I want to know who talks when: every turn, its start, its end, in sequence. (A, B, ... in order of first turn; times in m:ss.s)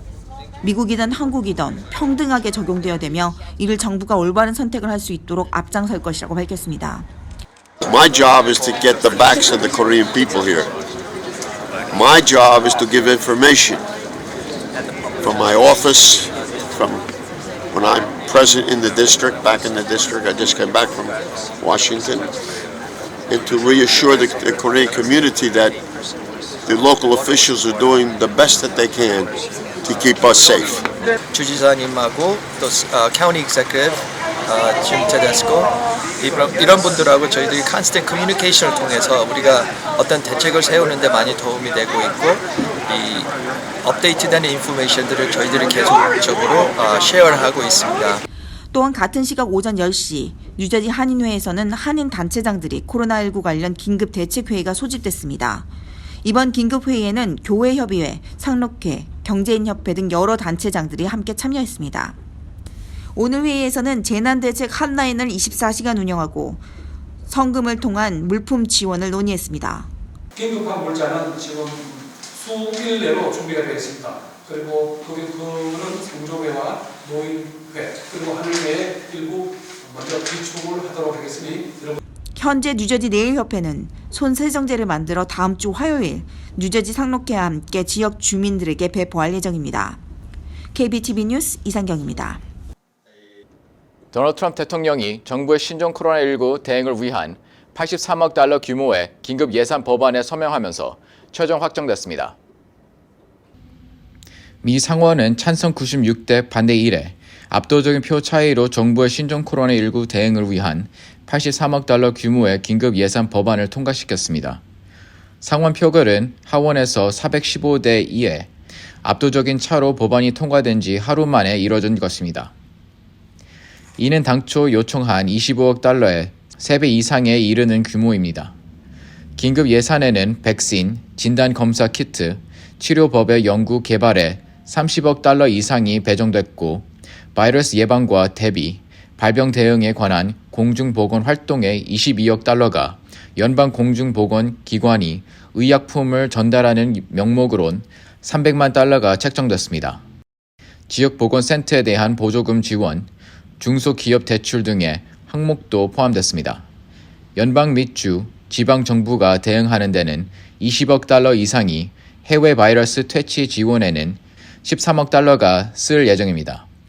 0:00.6-0:07.1 A
0:07.8-0:10.7 B
0:11.9-0:13.8 B
0:15.2-0:17.1 B
0:17.7-0:22.3 B
0:23.3-0:25.8 B
0:26.6-0:30.8 B
0:31.3-0:43.3 C
0:43.8-0:48.2 C
0:48.7-0:55.7 A
0:56.2-1:02.2 A
1:03.1-1:06.6 A
1:07.3-1:09.9 A
1:10.3-1:22.0 D
1:22.3-1:30.0 A
1:30.7-1:32.4 A
1:34.1-1:42.3 E
1:44.6-1:54.6 E
1:55.4-1:58.5 E
1:59.0-2:02.5 E
2:04.0-2:08.5 E
2:09.4-2:30.0 E
2:30.9-2:33.1 E
2:33.6-2:36.6 E
2:37.4-2:46.6 E